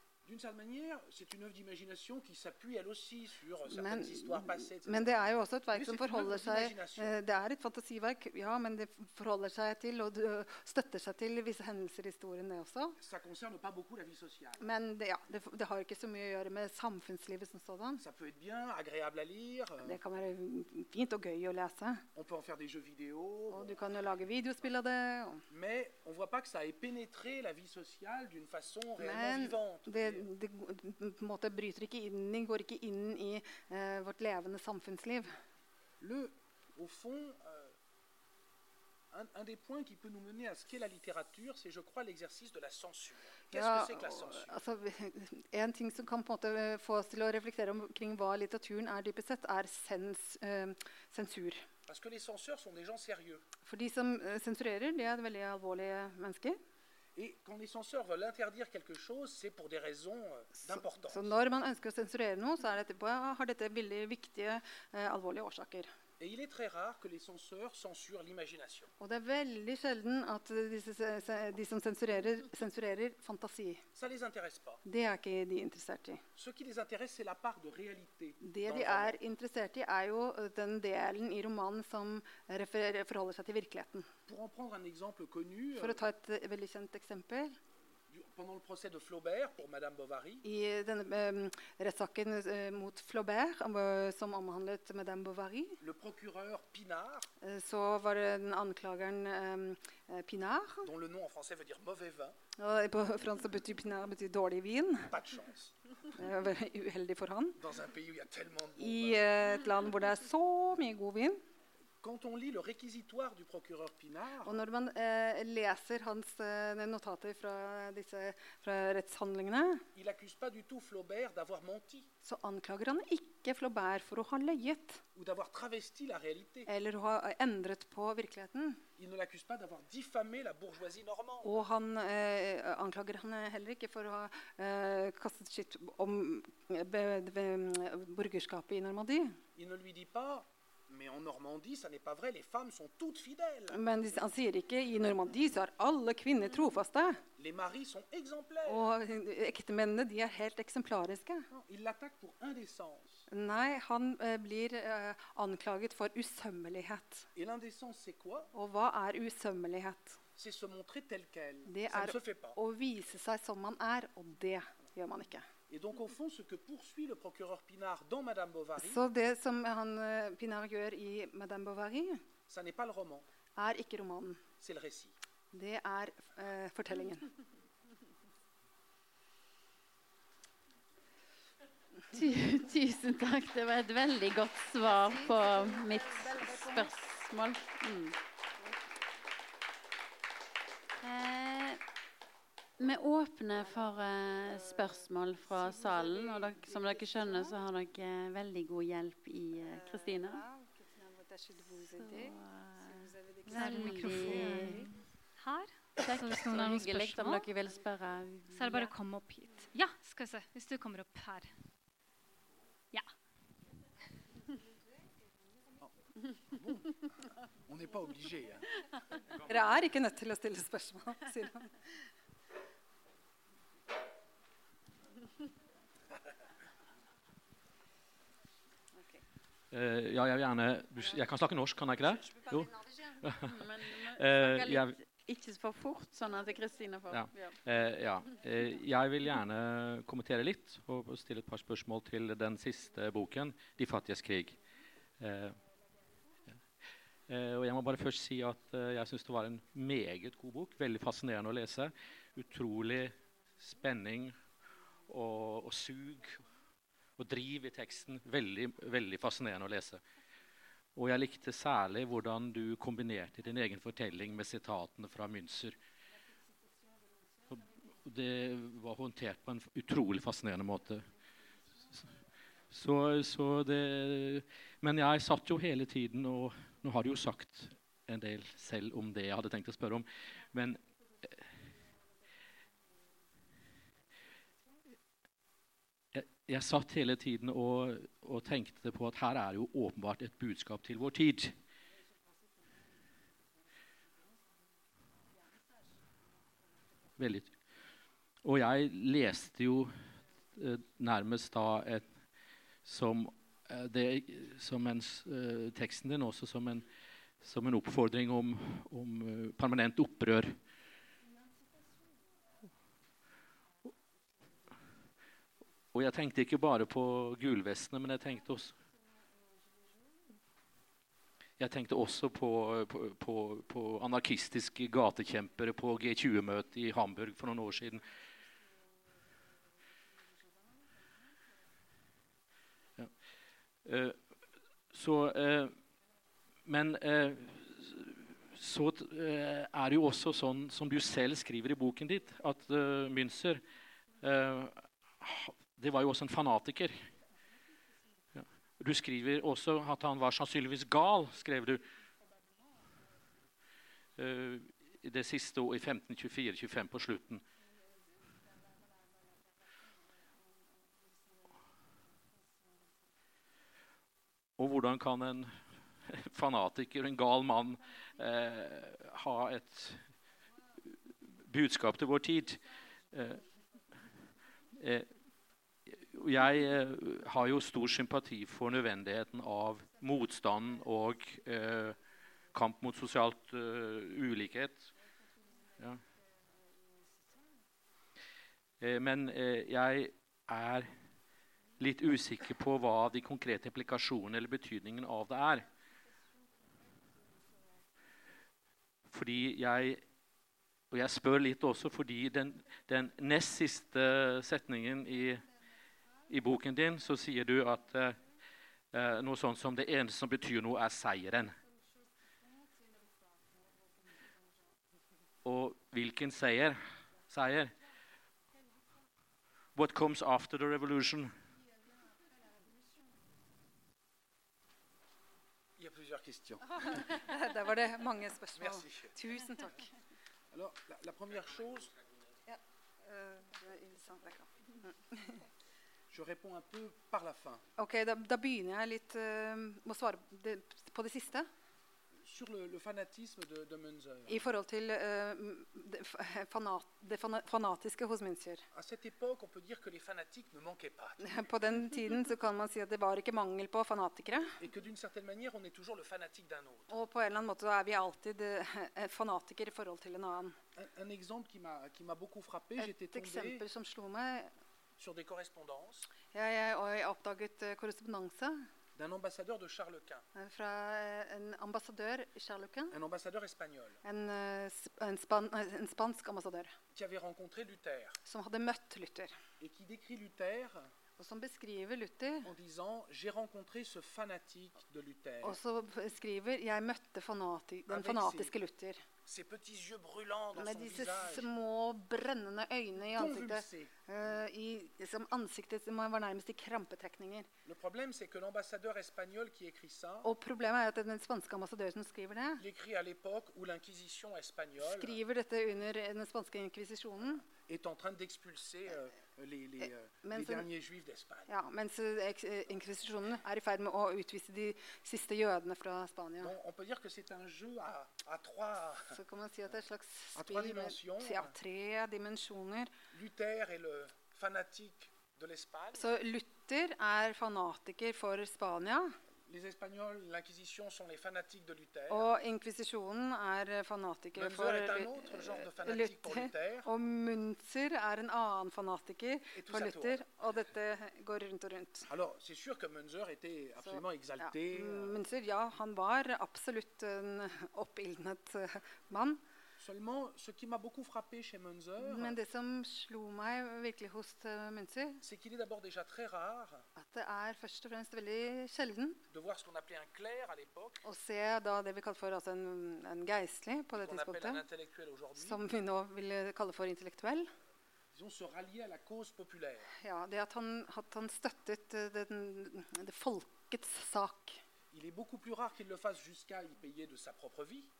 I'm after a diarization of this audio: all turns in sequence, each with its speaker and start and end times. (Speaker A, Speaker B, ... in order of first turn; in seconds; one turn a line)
Speaker A: 0.2-7.2
Speaker B: 3.7-13.0
Speaker A: 13.0-14.7
Speaker B: 14.6-18.0
Speaker A: 18.0-20.0
Speaker B: 19.8-22.1
Speaker A: 22.1-23.8
Speaker B: 23.5-25.5
Speaker A: 25.5-30.3
Speaker B: 29.0-35.3
Speaker A: 36.0-37.8
Speaker A: 39.1-44.6
Speaker B: 43.5-51.7
Speaker A: 51.9-53.5
Speaker B: 53.6-56.6
Speaker A: 57.2-61.4
Speaker B: 60.6-65.9
Speaker A: 66.2-68.9
Speaker B: 69.0-73.8
Speaker A: 74.0-74.8
Speaker B: 74.8-76.2
Speaker A: 76.3-79.2
Speaker B: 78.4-84.1
Speaker A: 84.3-86.0
Speaker B: 85.8-87.6
Speaker A: 88.1-90.4
Speaker B: 90.4-95.8
Speaker A: 95.8-97.3
Speaker B: 97.4-100.9
Speaker A: 100.8-102.4
Speaker B: 102.6-105.1
Speaker A: 105.1-105.9
Speaker B: 106.1-107.6
Speaker A: 107.6-109.4
Speaker B: 108.8-111.4
Speaker A: 112.0-114.6
Speaker B: 114.4-119.8
Speaker A: 119.9-122.1
Speaker B: 122.2-125.0
Speaker A: 125.1-126.7
Speaker B: 126.7-128.8
Speaker A: 129.0-131.7
Speaker B: 131.4-139.4
Speaker A: 139.6-143.8
Speaker B: 143.7-147.2
Speaker A: 147.3-148.9
Speaker B: 148.6-151.5
Speaker A: 151.5-153.3
Speaker B: 153.3-157.3
Speaker A: 157.3-158.5
Speaker B: 158.5-160.2
Speaker A: 160.4-162.6
Speaker B: 161.7-165.5
Speaker A: 165.7-169.0
Speaker B: 168.8-172.2
Speaker A: 172.5-173.3
Speaker B: 173.6-174.4
Speaker A: 174.6-175.1
Speaker B: 175.5-177.3
Speaker C: 182.1-188.2
Speaker B: 185.1-186.9
Speaker C: 191.0-191.8
Speaker C: 192.8-200.4
Speaker B: 194.5-194.8
Speaker B: 195.5-197.6
Speaker B: 199.6-204.9
Speaker C: 201.9-204.9
Speaker D: 203.5-207.5
Speaker C: 206.0-208.9
Speaker D: 208.5-211.5
Speaker A: 216.5-218.7
Speaker B: 219.4-221.7
Speaker B: 229.0-229.2
Speaker E: 229.7-235.0
Speaker C: 233.4-237.6
Speaker E: 237.1-244.6
Speaker E: 245.2-245.6
Speaker E: 247.3-254.4
Speaker E: 255.1-256.4
Speaker E: 257.2-260.0
Speaker E: 261.0-265.8
Speaker E: 267.5-271.1
Speaker E: 272.7-281.4
Speaker E: 286.1-291.6
Speaker E: 297.2-297.5
Speaker E: 298.4-300.1
Speaker E: 300.6-302.1
Speaker E: 302.9-306.9
Speaker E: 307.4-310.6
Speaker E: 315.9-318.8
Speaker E: 321.6-328.1
Speaker E: 333.9-334.2
Speaker E: 334.9-335.8
Speaker E: 336.6-343.6
Speaker E: 344.2-347.1
Speaker E: 348.4-351.9
Speaker E: 354.2-357.4
Speaker E: 364.6-370.1
Speaker E: 371.4-373.4
Speaker E: 374.8-375.1
Speaker E: 375.9-382.0
Speaker E: 382.5-384.9
Speaker E: 388.8-390.9
Speaker E: 391.8-395.7
Speaker E: 399.1-400.0
Speaker E: 400.9-405.5
Speaker E: 406.3-408.2
Speaker E: 408.9-411.6
Speaker E: 415.4-417.7
Speaker E: 419.8-421.3
Speaker A: 425.8-427.2
Speaker B: 426.8-429.9
Speaker A: 428.6-429.2
Speaker A: 430.5-432.1
Speaker B: 432.5-435.4
Speaker A: 436.1-437.6
Speaker B: 437.8-441.5
Speaker A: 442.2-444.5
Speaker B: 444.3-448.7
Speaker A: 448.7-451.5
Speaker B: 451.2-454.6
Speaker A: 454.6-456.9
Speaker B: 456.9-460.6
Speaker A: 460.8-463.6
Speaker B: 462.8-464.5
Speaker A: 465.0-466.1
Speaker B: 466.3-468.7
Speaker A: 469.0-470.2
Speaker B: 470.3-473.0
Speaker A: 472.9-474.0
Speaker B: 474.0-476.8
Speaker A: 476.9-478.2
Speaker B: 478.2-479.3
Speaker A: 479.6-480.9
Speaker B: 481.2-482.5
Speaker A: 482.4-485.6
Speaker B: 485.4-489.1
Speaker A: 487.9-488.6
Speaker A: 489.3-491.5
Speaker B: 490.6-497.5
Speaker A: 493.1-493.9
Speaker A: 497.6-500.3
Speaker B: 500.2-502.6
Speaker A: 502.6-505.2
Speaker B: 504.8-507.5
Speaker A: 507.6-511.5
Speaker B: 510.2-510.7
Speaker B: 511.5-516.5
Speaker A: 516.4-519.2
Speaker B: 519.1-522.9
Speaker A: 520.4-521.5
Speaker A: 523.1-526.2
Speaker B: 525.9-529.2
Speaker A: 529.5-532.3
Speaker B: 532.1-542.1
Speaker A: 534.4-536.9
Speaker A: 539.5-540.2
Speaker A: 542.1-545.2
Speaker B: 543.8-549.4
Speaker A: 549.8-552.4
Speaker B: 552.0-555.2
Speaker A: 555.2-556.9
Speaker B: 557.0-559.2
Speaker A: 559.3-561.0
Speaker B: 561.0-564.6
Speaker A: 564.0-565.6
Speaker B: 565.4-567.5
Speaker A: 568.1-569.9
Speaker B: 570.0-574.6
Speaker A: 574.9-577.9